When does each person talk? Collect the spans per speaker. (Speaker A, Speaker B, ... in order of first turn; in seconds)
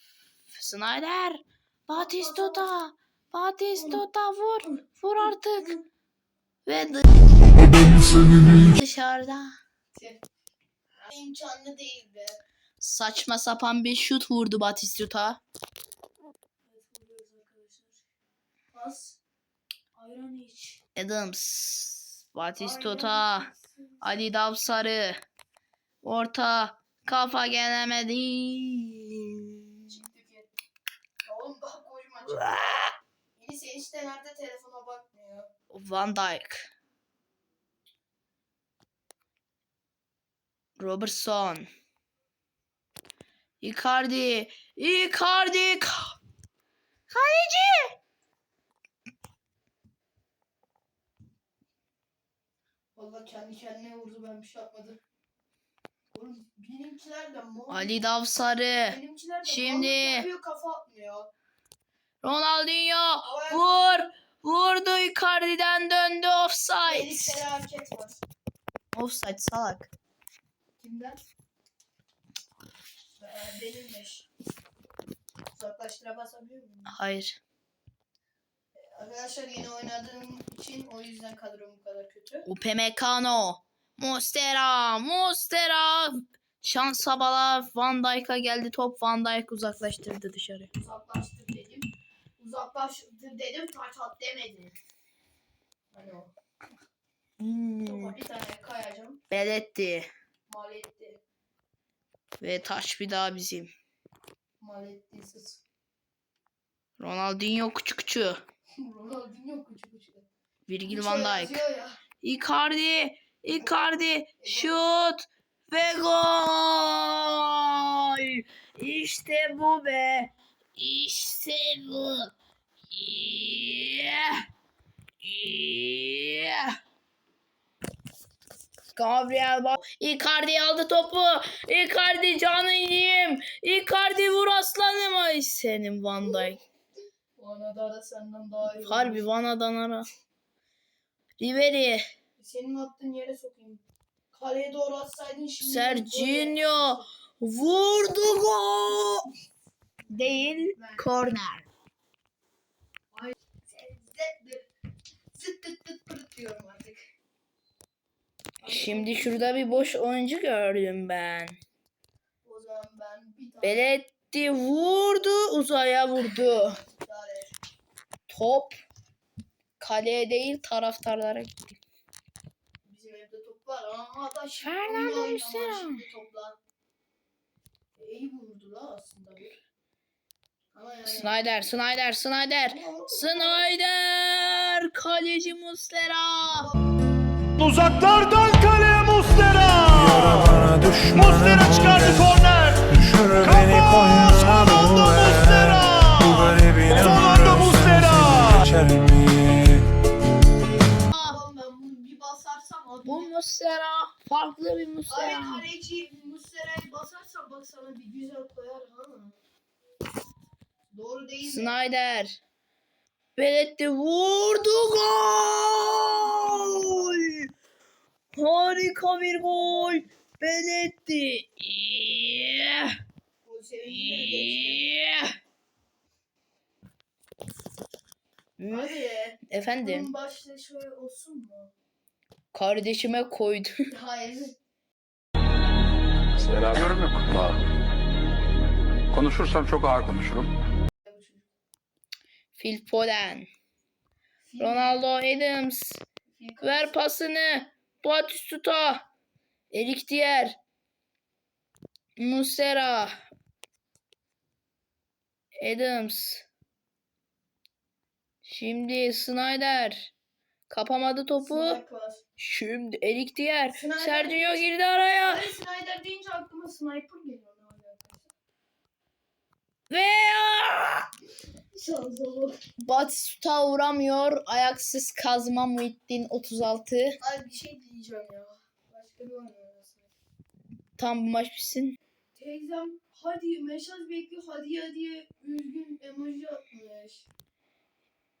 Speaker A: 0.5-5.8, 6.7-7.0, 8.2-9.6, 12.8-15.4, 20.9-25.2, 26.0-30.0, 32.4-33.0, 35.7-36.7, 40.8-41.7, 43.6-46.1, 47.1-47.9, 57.7-60.3, 62.2-67.4, 68.9-69.9, 76.9-77.4, 82.5-90.7, 97.4-98.2, 99.3-100.1, 102.4-103.7, 107.0-108.4, 110.7-111.6, 112.2-122.3, 122.9-124.5, 125.2-126.8, 128.9-136.6, 138.8-140.1, 141.4-142.1, 145.6-149.3, 150.1-151.7, 158.6-161.6, 163.6-166.8, 168.3-168.8, 169.8-171.8, 174.6-176.0, 181.0-186.7, 201.1-201.4, 203.0-205.7, 211.4-212.4, 213.4-217.5, 218.3-222.9, 223.8-225.3, 228.6-230.1, 232.5-233.9, 242.5-243.5, 244.6-246.0, 246.6-249.1, 249.7-250.6, 252.2-253.2, 255.6-256.4, 258.4-260.1, 260.7-261.8, 262.4-265.5, 269.9-271.1, 272.8-277.2, 281.0-282.0
Speaker B: 2.0-2.7, 3.8-4.0, 9.9-10.2, 11.0-12.4, 16.7-18.0, 18.7-19.2, 19.9-20.8, 22.6-24.2, 29.9-30.5, 31.2-32.5, 33.4-35.5, 53.0-55.0, 56.1-57.9, 58.9-61.3, 63.2-63.8, 66.8-68.2, 70.8-71.2, 73.2-74.2, 75.5-76.9, 79.0-82.5, 90.7-94.7, 95.9-96.3, 97.8-99.2, 100.5-101.2, 104.6-105.6, 108.8-110.3, 110.9-112.0, 114.4-114.8, 137.4-139.2, 142.4-147.0, 150.7-151.0, 153.2-154.6, 155.3-157.0, 158.6-159.8, 162.4-163.9, 166.8-167.5, 172.8-176.6, 178.0-179.6, 180.7-181.3, 182.7-183.6, 201.2-203.3, 205.1-209.4, 210.9-211.7, 223.4-224.9, 228.7-231.7, 233.9-234.6, 241.1-241.5, 244.5-244.9, 246.3-247.0, 261.4-262.2, 263.7-264.6, 265.2-268.3, 271.7-272.6, 277.2-280.1, 282.3-287.2
Speaker C: 187.6-199.8
Speaker D: 236.4-237.6, 239.1-240.5